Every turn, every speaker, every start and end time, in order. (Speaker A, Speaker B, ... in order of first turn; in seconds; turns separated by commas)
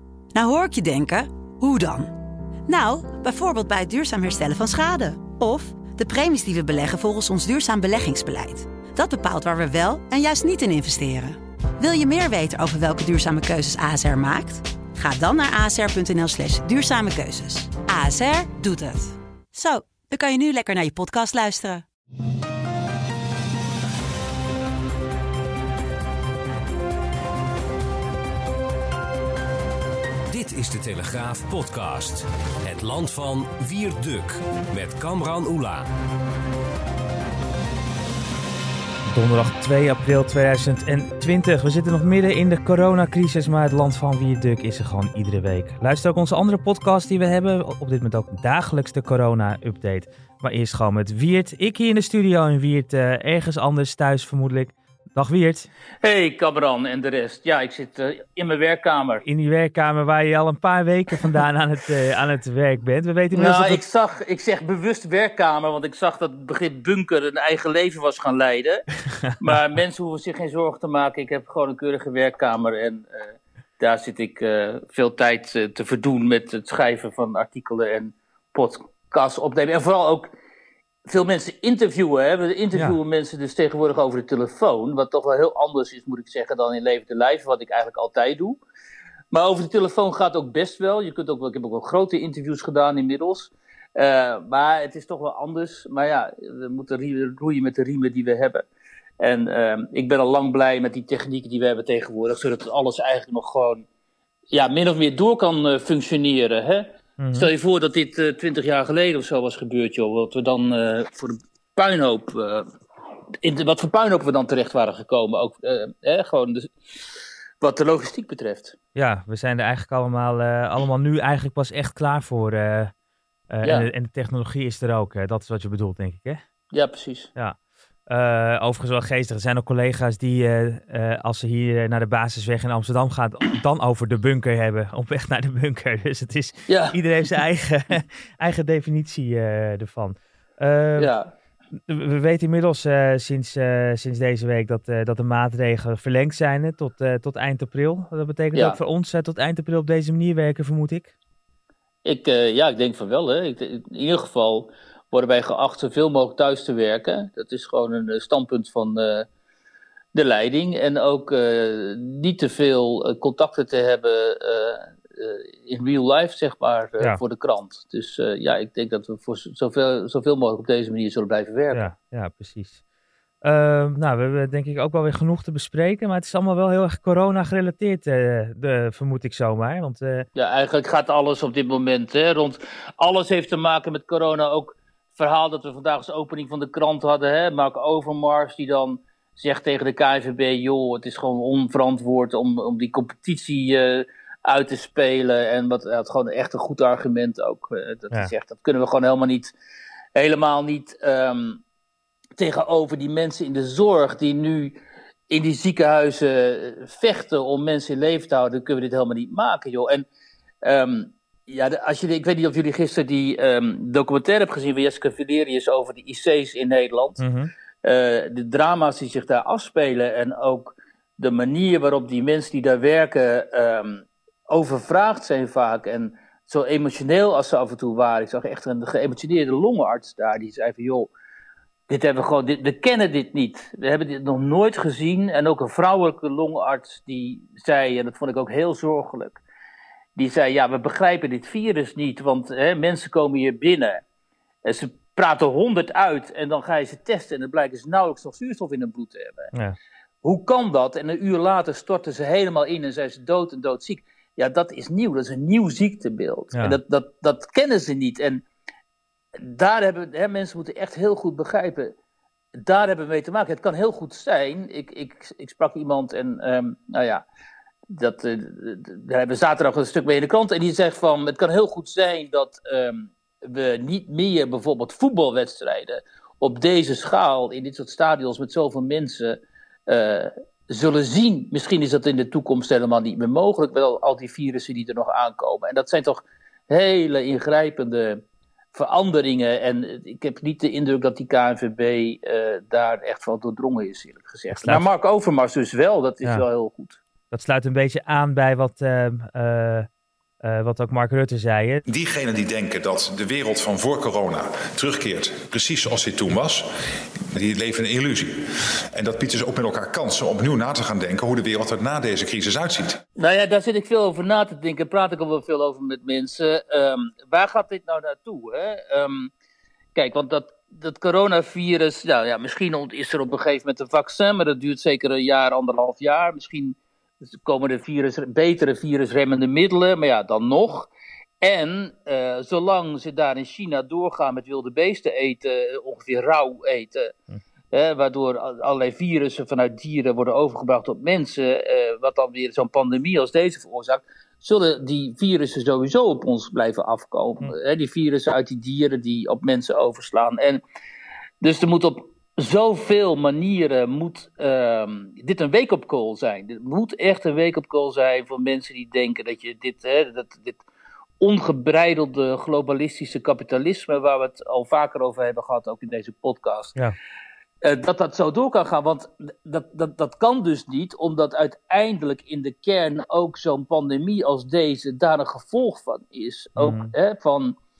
Speaker A: 0.3-2.1, Speaker A: 2.7-21.8, Speaker B: 30.3-35.9, Speaker C: 39.1-55.7, Speaker D: 56.0-59.2, Speaker C: 59.3-63.8, Speaker D: 63.3-68.9, Speaker D: 69.4-80.3, Speaker D: 81.1-88.6, Speaker D: 89.3-98.7, Speaker D: 99.2-103.9, Speaker D: 104.5-112.7, Speaker C: 107.2-107.5, Speaker D: 113.4-116.7, Speaker D: 117.6-118.8, Speaker C: 119.0-122.9, Speaker C: 123.5-126.4, Speaker D: 123.6-123.9, Speaker D: 126.7-127.3, Speaker C: 128.1-141.1, Speaker D: 136.7-137.0, Speaker D: 141.0-141.3, Speaker C: 141.9-151.1, Speaker D: 148.5-148.8, Speaker D: 152.1-159.3, Speaker D: 160.1-171.9, Speaker C: 171.7-172.8, Speaker C: 173.4-180.3, Speaker D: 180.4-199.5, Speaker D: 200.2-201.6, Speaker D: 202.4-204.8, Speaker D: 205.3-210.1, Speaker D: 210.6-217.2, Speaker C: 217.2-217.5, Speaker D: 217.8-231.1, Speaker D: 231.9-239.4, Speaker D: 240.2-244.0, Speaker D: 244.7-249.5, Speaker D: 250.2-258.4, Speaker D: 259.4-261.9, Speaker D: 262.6-267.2, Speaker D: 267.9-288.2, Speaker D: 288.7-297.0, Speaker C: 294.5-294.8, Speaker C: 297.3-299.9, Speaker C: 300.4-301.8, Speaker E: 301.9-306.7, Speaker E: 307.2-313.0, Speaker D: 313.2-319.3, Speaker D: 319.9-326.8, Speaker D: 327.4-330.9, Speaker D: 331.4-337.1, Speaker D: 337.7-350.6, Speaker D: 351.4-360.6, Speaker D: 361.2-366.8, Speaker D: 367.6-377.6, Speaker C: 376.6-376.9